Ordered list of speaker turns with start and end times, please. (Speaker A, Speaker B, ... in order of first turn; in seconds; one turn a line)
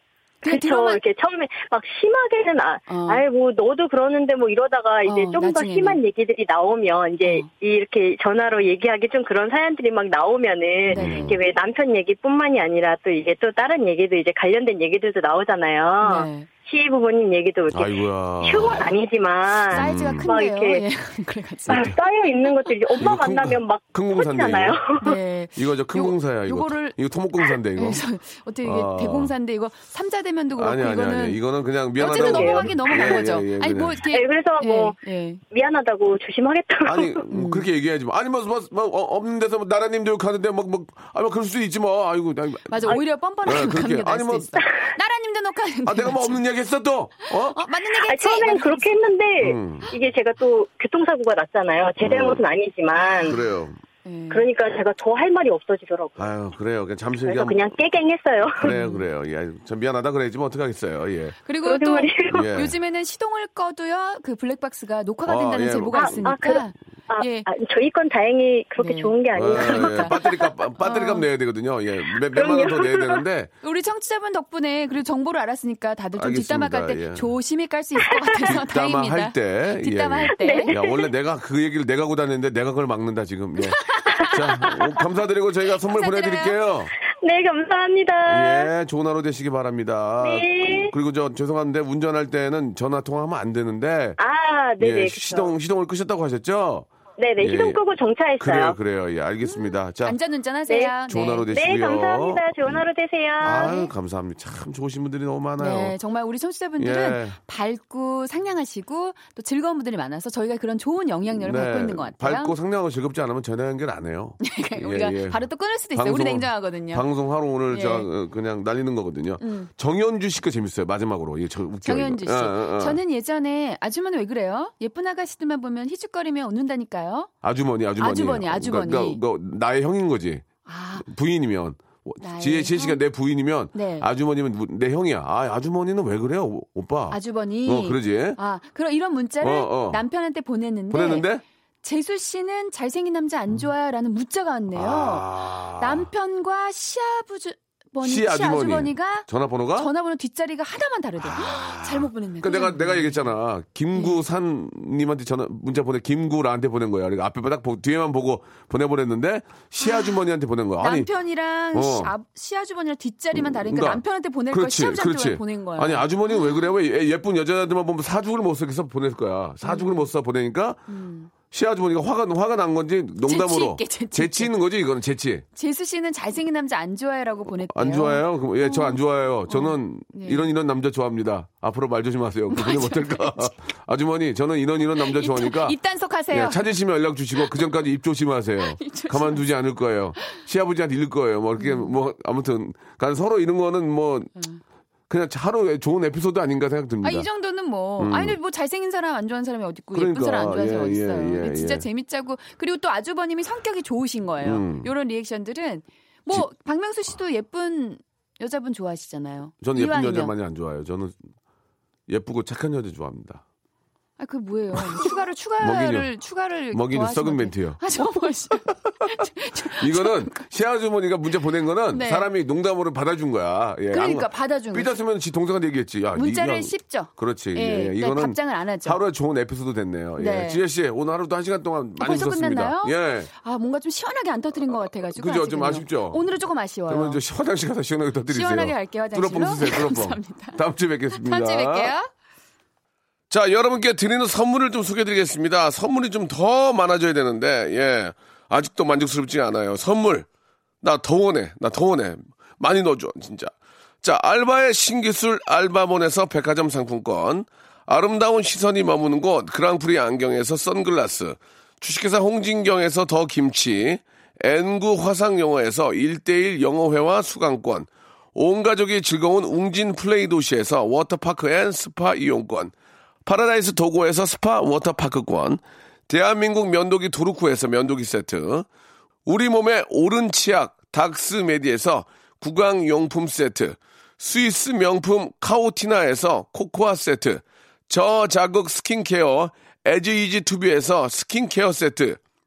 Speaker A: 0.4-1.0
Speaker B: 0.4-20.8
Speaker A: 2.9-3.2
Speaker A: 5.0-6.0
Speaker A: 7.2-7.5
Speaker C: 10.9-11.4
Speaker A: 10.9-11.4
Speaker A: 16.0-16.5
Speaker C: 17.7-18.9
Speaker C: 19.7-20.3
Speaker A: 19.7-22.0
Speaker B: 21.7-25.2
Speaker C: 23.0-24.8
Speaker A: 25.0-27.0
Speaker C: 25.6-28.0
Speaker A: 27.8-31.4
Speaker C: 28.6-29.3
Speaker C: 30.6-34.0
Speaker A: 32.0-35.4
Speaker B: 32.0-33.2
Speaker B: 34.1-35.0
Speaker B: 35.5-37.2
Speaker C: 36.9-44.6
Speaker A: 37.3-37.7
Speaker A: 42.7-46.4
Speaker C: 45.9-47.6
Speaker A: 47.5-48.9
Speaker B: 48.0-53.4
Speaker C: 49.4-49.9
Speaker C: 52.0-52.4
Speaker C: 53.2-53.8
Speaker A: 54.0-54.5
Speaker B: 54.3-56.2
Speaker C: 56.2-57.6
Speaker B: 57.2-58.7
Speaker C: 58.6-61.4
Speaker A: 58.6-59.1
Speaker A: 61.5-67.5
Speaker B: 61.6-62.3
Speaker C: 62.3-62.8
Speaker C: 65.3-66.2
Speaker B: 66.0-70.5
Speaker A: 68.8-70.2
Speaker C: 69.3-73.5
Speaker A: 70.8-71.3
Speaker B: 72.2-73.2
Speaker A: 73.6-80.8
Speaker C: 76.2-77.3
Speaker C: 78.5-86.9
Speaker B: 80.3-81.1
Speaker A: 83.6-84.5
Speaker A: 85.9-86.6
Speaker B: 87.2-88.7
Speaker C: 88.3-94.2
Speaker B: 90.2-90.9
Speaker B: 94.2-95.5
Speaker C: 94.8-97.8
Speaker B: 97.2-98.8
Speaker C: 98.4-100.2
Speaker A: 99.4-101.5
Speaker B: 100.7-101.0
Speaker C: 101.1-102.8
Speaker B: 101.5-103.8
Speaker A: 103.4-103.9
Speaker C: 103.4-106.0
Speaker A: 105.6-112.5
Speaker C: 106.8-107.4
Speaker C: 111.4-123.0
Speaker A: 114.4-117.1
Speaker A: 117.7-118.1
Speaker A: 119.4-119.7
Speaker A: 121.8-127.3
Speaker C: 127.4-130.5
Speaker A: 128.0-129.2
Speaker A: 130.7-131.1
Speaker C: 131.0-138.4
Speaker A: 132.2-133.0
Speaker A: 133.7-134.1
Speaker A: 137.1-141.3
Speaker C: 139.4-140.1
Speaker C: 140.9-141.4
Speaker A: 141.8-153.3
Speaker C: 144.7-146.1
Speaker C: 148.0-149.9
Speaker C: 151.2-161.1
Speaker A: 153.9-154.2
Speaker A: 159.8-160.1
Speaker A: 160.8-166.6
Speaker C: 161.7-162.1
Speaker C: 163.3-170.8
Speaker A: 169.6-170.1
Speaker A: 170.9-171.3
Speaker C: 171.5-175.4
Speaker A: 173.2-174.5
Speaker A: 175.6-180.5
Speaker C: 177.7-185.8
Speaker A: 182.5-183.7
Speaker A: 185.0-186.7
Speaker C: 186.3-194.3
Speaker A: 188.6-189.5
Speaker A: 191.6-192.0
Speaker C: 195.1-197.3
Speaker A: 197.0-210.3
Speaker C: 198.0-198.4
Speaker C: 199.9-201.9
Speaker C: 204.4-204.9
Speaker C: 209.6-211.2
Speaker C: 212.1-213.4
Speaker A: 214.2-220.5
Speaker C: 215.6-216.1
Speaker C: 216.7-217.8
Speaker C: 219.7-233.3
Speaker A: 221.9-222.3
Speaker A: 223.9-224.9
Speaker A: 226.1-229.0
Speaker A: 230.2-230.6
Speaker A: 232.0-237.2
Speaker C: 235.1-236.2
Speaker C: 236.9-241.9
Speaker A: 238.3-242.1
Speaker C: 243.3-250.3
Speaker C: 250.8-272.7
Speaker C: 273.2-278.7
Speaker C: 279.3-292.2